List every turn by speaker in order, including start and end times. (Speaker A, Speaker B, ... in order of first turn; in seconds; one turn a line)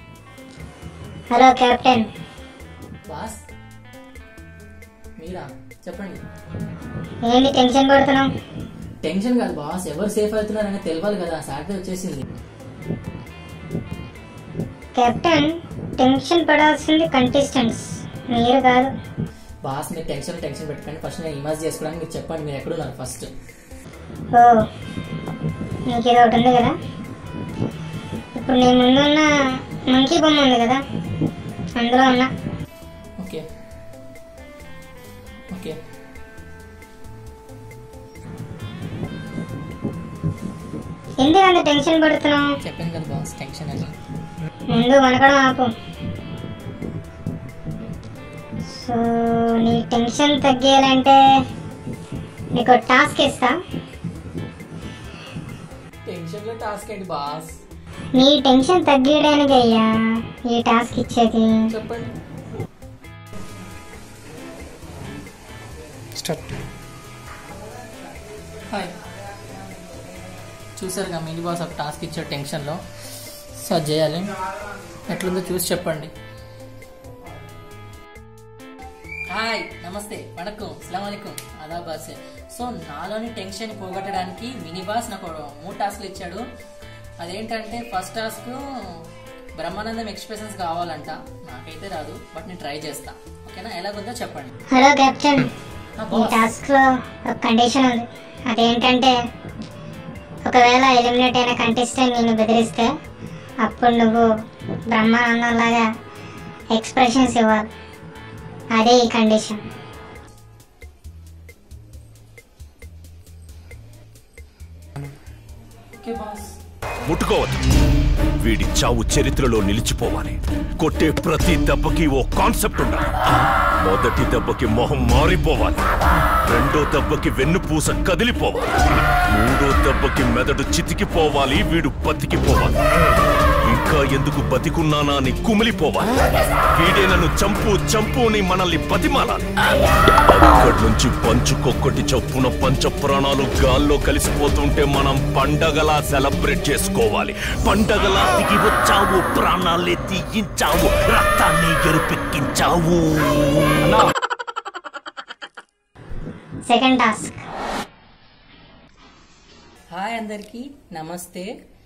Speaker A: 1.3-2.1
Speaker B: 3.1-3.4
Speaker B: 5.2-6.2
Speaker A: 7.3-8.3
Speaker B: 9.0-12.2
Speaker A: 14.9-18.9
Speaker B: 19.6-23.3
Speaker A: 24.3-24.6
Speaker A: 25.9-26.7
Speaker A: 28.3-29.3
Speaker A: 29.9-30.8
Speaker A: 31.8-32.3
Speaker B: 33.2-33.4
Speaker B: 35.5-35.8
Speaker A: 41.2-42.5
Speaker B: 42.6-43.9
Speaker A: 44.7-45.7
Speaker A: 48.7-51.2
Speaker A: 52.5-53.5
Speaker B: 56.0-57.5
Speaker A: 58.1-61.7
Speaker B: 61.7-62.1
Speaker B: 70.8-72.8
Speaker B: 73.5-74.3
Speaker B: 75.0-76.1
Speaker B: 79.3-86.4
Speaker B: 87.2-89.0
Speaker B: 89.6-94.5
Speaker A: 94.7-95.5
Speaker B: 96.0-96.5
Speaker A: 96.1-99.2
Speaker A: 100.5-102.9
Speaker A: 103.6-104.3
Speaker A: 104.9-105.9
Speaker A: 106.7-107.7
Speaker A: 108.7-109.6
Speaker B: 116.0-116.5
Speaker C: 117.0-117.6
Speaker C: 118.4-125.8
Speaker C: 126.4-133.0
Speaker C: 133.6-139.5
Speaker C: 140.2-154.0
Speaker A: 156.7-157.4
Speaker B: 159.9-161.5